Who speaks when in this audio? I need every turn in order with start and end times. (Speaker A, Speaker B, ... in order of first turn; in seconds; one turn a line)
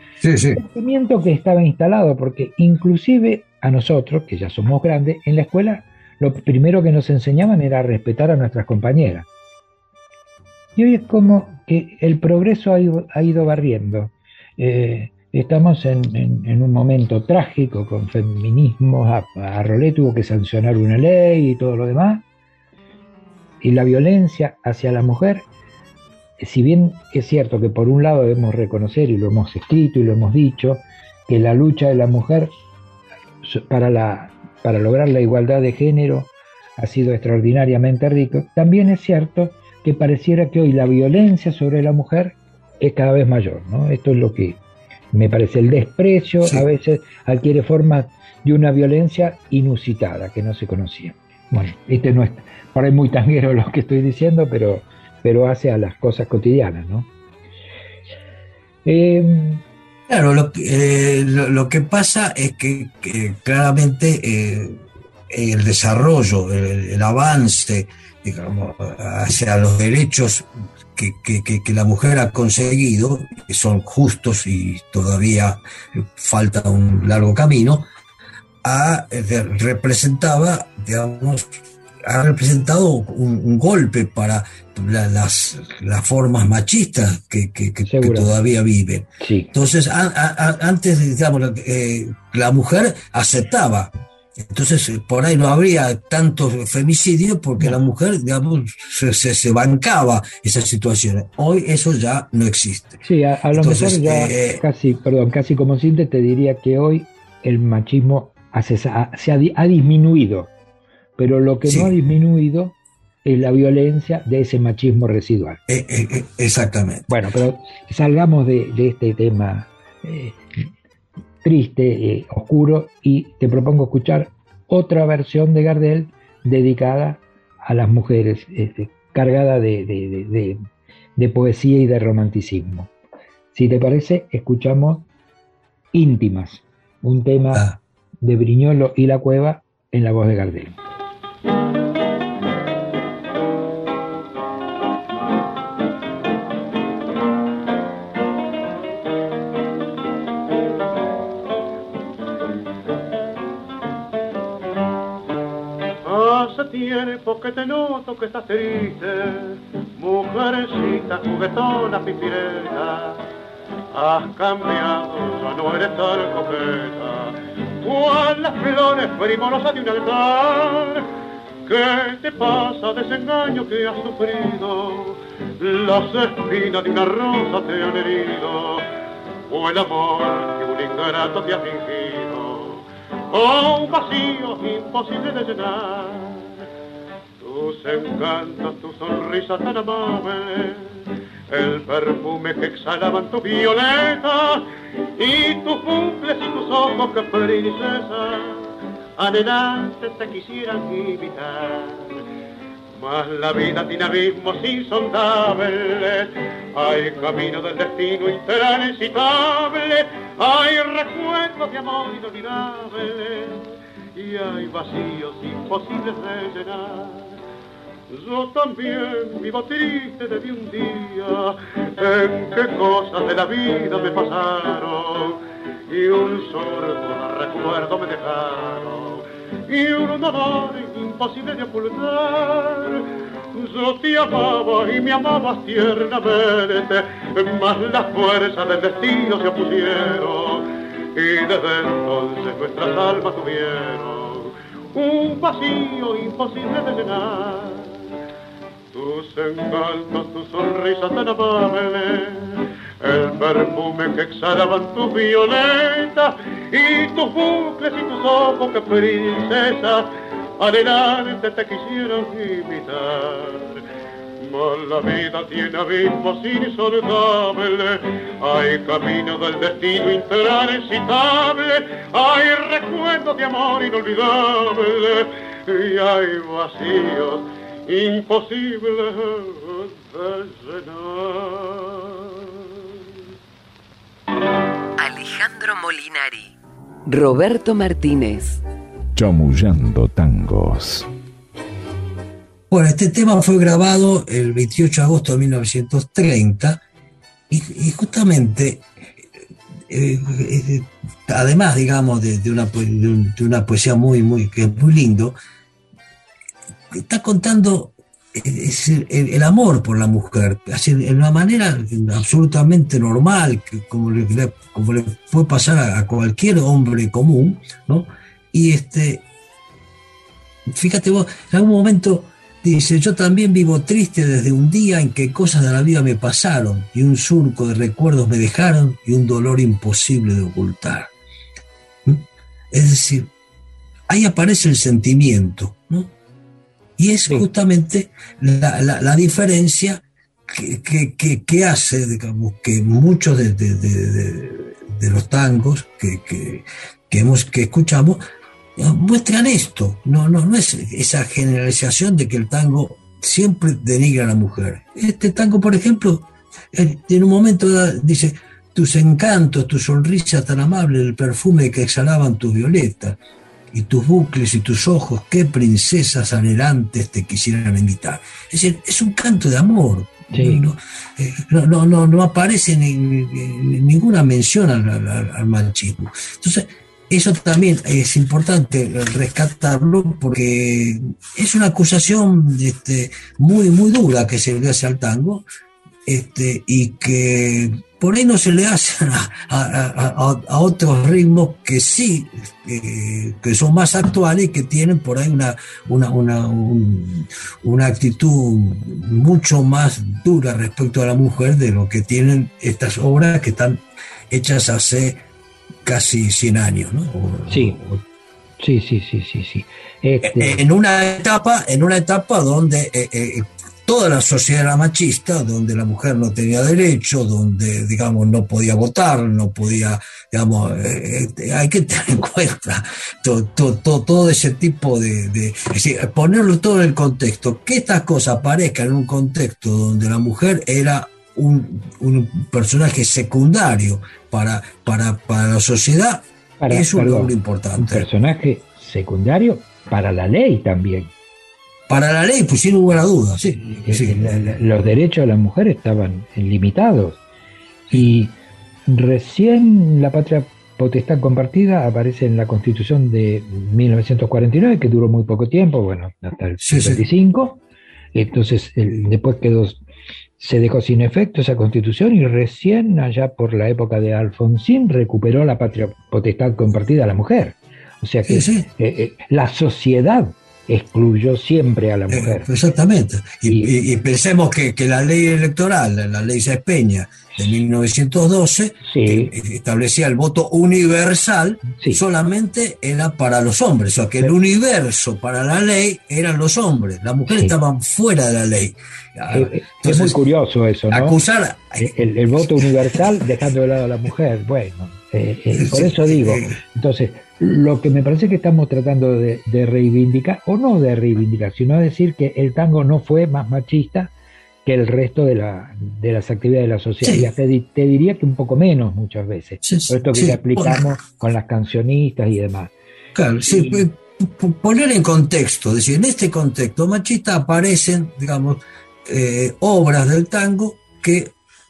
Speaker A: 0.2-0.6
Speaker B: 0.6-9.3
Speaker B: 10.8-22.2
Speaker B: 23.6-25.4
Speaker B: 26.4-32.5
Speaker B: 33.4-44.6
Speaker B: 45.1-57.1
Speaker B: 58.8-59.6
Speaker A: 60.1-77.9
Speaker A: 78.6-81.5
Speaker A: 82.0-103.0
Speaker B: 87.9-88.3
Speaker B: 89.2-89.5
Speaker B: 103.0-110.5
Speaker A: 103.5-104.6
Speaker B: 111.2-115.6
Speaker A: 111.7-111.9
Speaker A: 115.7-117.1
Speaker B: 117.1-120.6
Speaker B: 121.4-130.6
Speaker B: 131.2-132.9
Speaker B: 133.5-135.1
Speaker B: 135.9-137.7
Speaker B: 138.2-140.8
Speaker C: 156.0-163.2
Speaker C: 163.9-171.1
Speaker C: 171.7-178.9
Speaker C: 179.5-186.6
Speaker C: 187.4-194.7
Speaker C: 195.2-202.2
Speaker C: 202.9-213.6
Speaker C: 214.2-217.4
Speaker C: 218.1-248.1
Speaker C: 248.9-260.1
Speaker C: 260.6-263.8
Speaker C: 264.4-282.9
Speaker D: 285.0-286.5
Speaker D: 287.1-288.6
Speaker E: 289.1-291.1
Speaker A: 292.7-296.8
Speaker A: 297.5-298.9
Speaker A: 299.9-305.4
Speaker A: 306.9-319.2
Speaker A: 320.7-331.1
Speaker A: 332.0-333.3
Speaker A: 334.1-336.1
Speaker A: 337.0-348.2
Speaker A: 348.8-363.2
Speaker A: 363.7-385.4
Speaker B: 370.3-370.6
Speaker A: 386.1-405.2
Speaker A: 405.8-408.0
Speaker B: 407.5-407.8
Speaker B: 408.6-410.6
Speaker A: 410.2-438.1
Speaker B: 436.6-441.1
Speaker A: 441.9-444.6
Speaker B: 443.6-447.2
Speaker B: 447.9-448.4
Speaker B: 448.9-457.6
Speaker A: 456.6-457.0
Speaker B: 458.1-459.8
Speaker B: 460.4-472.5
Speaker A: 468.2-468.7
Speaker A: 472.1-490.2
Speaker B: 478.9-479.3
Speaker B: 481.7-482.0
Speaker B: 487.3-487.6
Speaker B: 489.3-491.1
Speaker A: 490.9-491.9
Speaker B: 491.8-504.1
Speaker A: 495.5-496.6
Speaker B: 504.6-512.7
Speaker A: 507.0-507.3
Speaker A: 509.6-510.8
Speaker A: 513.1-521.3
Speaker B: 513.5-513.9